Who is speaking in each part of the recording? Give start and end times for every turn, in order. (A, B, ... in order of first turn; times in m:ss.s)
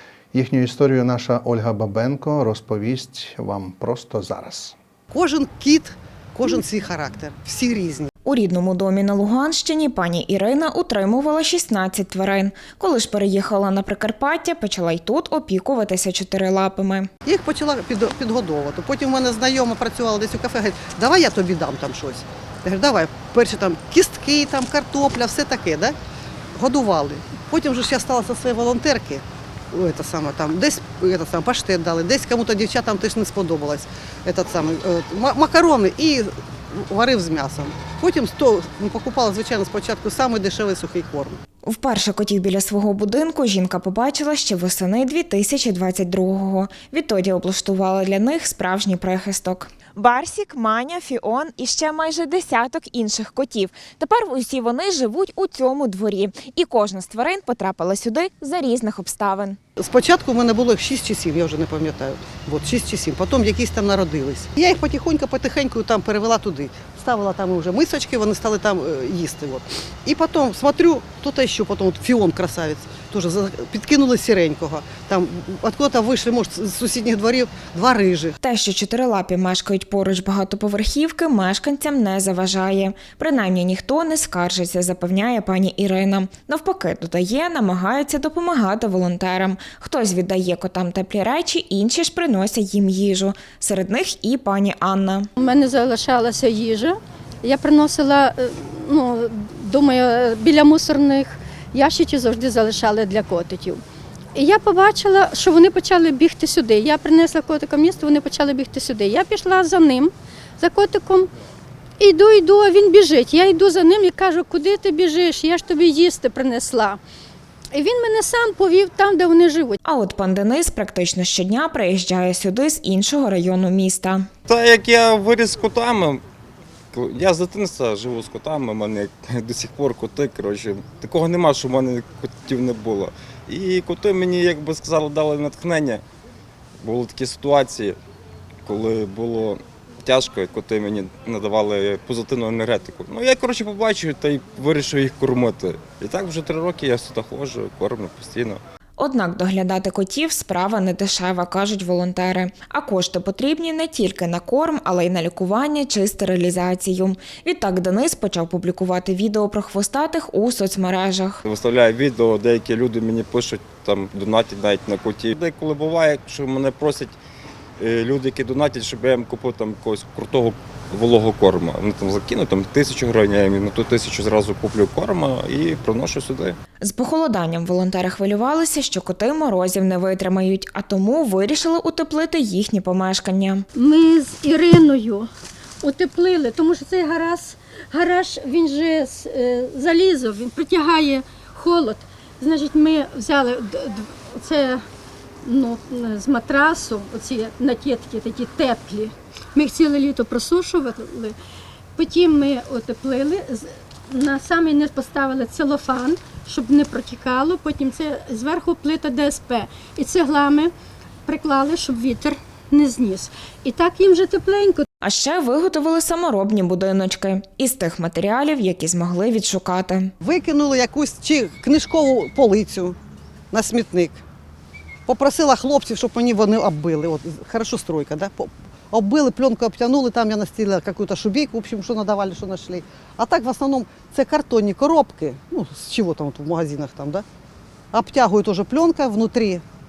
0:00.3-0:04.8 A
0:05.1-0:08.1 B
0:08.8-0:17.1 C
0:17.3-0:26.0 B
0:26.6-0:41.4 B
0:41.7-0:59.6 C
0:59.8-1:18.4 B
1:18.4-1:35.3 C
1:35.4-1:43.8 D
1:44.4-1:51.3 D
1:52.0-1:57.0 D
1:57.7-1:59.8 D
1:59.8-2:04.3 C
2:04.5-2:06.2 E
2:06.9-2:16.0 E
2:16.8-2:18.0 E
2:18.6-2:28.6 E
2:29.0-2:41.4 C
2:41.4-2:47.2 E
2:47.8-2:56.6 E
2:56.8-3:03.6 C
3:03.8-3:05.3 D
3:05.8-3:14.8 D
3:15.4-3:21.4 D
3:22.0-3:30.7 D
3:31.3-3:34.9 D
3:35.0-3:40.1 C
3:40.2-3:43.0 B
3:43.5-3:44.2 B
3:45.1-3:57.2 B
3:57.9-3:59.6 B